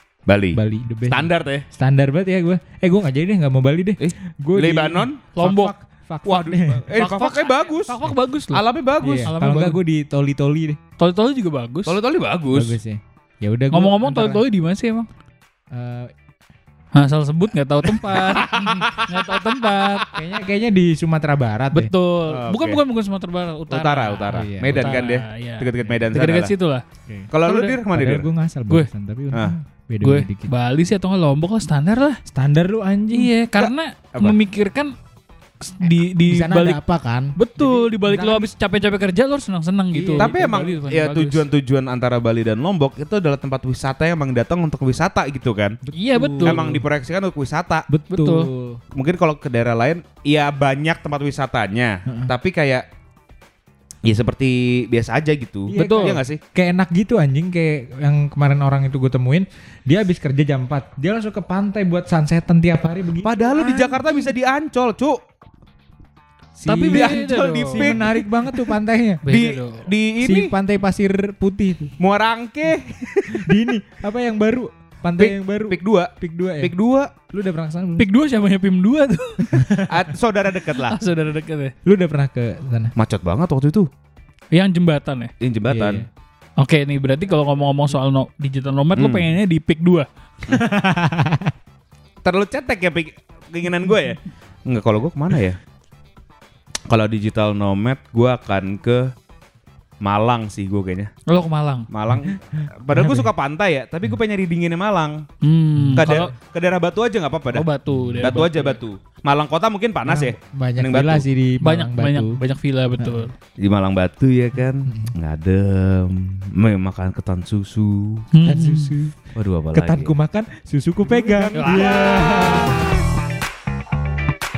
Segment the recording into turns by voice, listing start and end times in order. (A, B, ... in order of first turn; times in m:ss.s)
0:00.3-0:01.6 A
0:00.5-0:06.9 B
0:04.0-0:05.2 A
0:05.4-0:05.7 C
0:06.2-0:08.0 A
0:06.9-0:08.6 C
0:08.5-0:09.3 A
0:09.0-0:10.8 B
0:09.3-0:09.8 C
0:11.0-0:12.0 C
0:11.9-0:12.8 A
0:12.5-0:14.5 B
0:13.7-0:15.1 C
0:15.7-0:16.1 B
0:16.9-0:20.2 C
0:18.1-0:19.1 A
0:20.0-0:21.9 B
0:21.7-0:26.8 C
0:22.3-0:22.8 A
0:23.7-0:26.5 A
0:24.3-0:25.0 B
0:27.3-0:28.3 A
0:27.4-0:27.8 C
0:27.9-0:30.5 B
0:30.0-0:32.2 C
0:32.3-0:33.3 B
0:33.1-0:34.9 C
0:33.5-0:34.4 A
0:35.6-0:36.8 C
0:36.3-0:38.5 B
0:37.4-0:41.5 C
0:39.9-0:40.4 B
0:40.2-0:45.8 A
0:45.9-0:46.9 B
0:45.9-0:46.6 C
0:46.4-0:47.9 A
0:47.9-0:48.8 B
0:48.1-0:48.5 C
0:48.9-0:52.8 A
0:54.0-0:56.4 A
0:55.7-1:04.0 B
0:55.7-0:56.2 C
1:03.2-1:05.2 A
1:06.6-1:09.2 B
1:06.7-1:08.1 A
1:06.7-1:08.0 C
1:09.2-1:09.9 C
1:09.3-1:10.5 A
1:10.2-1:12.0 B
1:12.0-1:13.6 A
1:13.3-1:16.7 B
1:15.2-1:17.1 A
1:17.3-1:18.1 B
1:18.0-1:19.7 C
1:19.5-1:20.1 B
1:19.9-1:21.0 A
1:20.8-1:21.7 C
1:21.8-1:22.9 B
1:23.0-1:23.9 A
1:24.5-1:25.3 C
1:25.4-1:26.0 A
1:25.7-1:26.1 B
1:26.6-1:30.1 C
1:29.0-1:29.3 A
1:30.5-1:31.5 B
1:32.2-1:35.6 A
1:36.9-1:39.1 A
1:40.0-1:41.1 A
1:41.3-1:41.9 C
1:41.9-1:45.2 A
1:42.2-1:43.3 B
1:45.4-1:46.3 C
1:45.8-1:46.1 B
1:46.0-1:47.7 A
1:47.5-1:48.8 C
1:47.9-1:48.4 B
1:48.2-1:51.3 A
1:50.1-1:52.4 B
1:51.6-1:53.4 C
1:53.0-1:53.3 B
1:53.6-1:58.3 A
1:54.8-1:55.1 B
1:58.3-1:58.9 C
1:58.4-1:59.2 B
1:59.4-2:00.1 A
1:59.7-2:02.9 B
2:01.1-2:02.8 A
2:01.6-2:02.1 C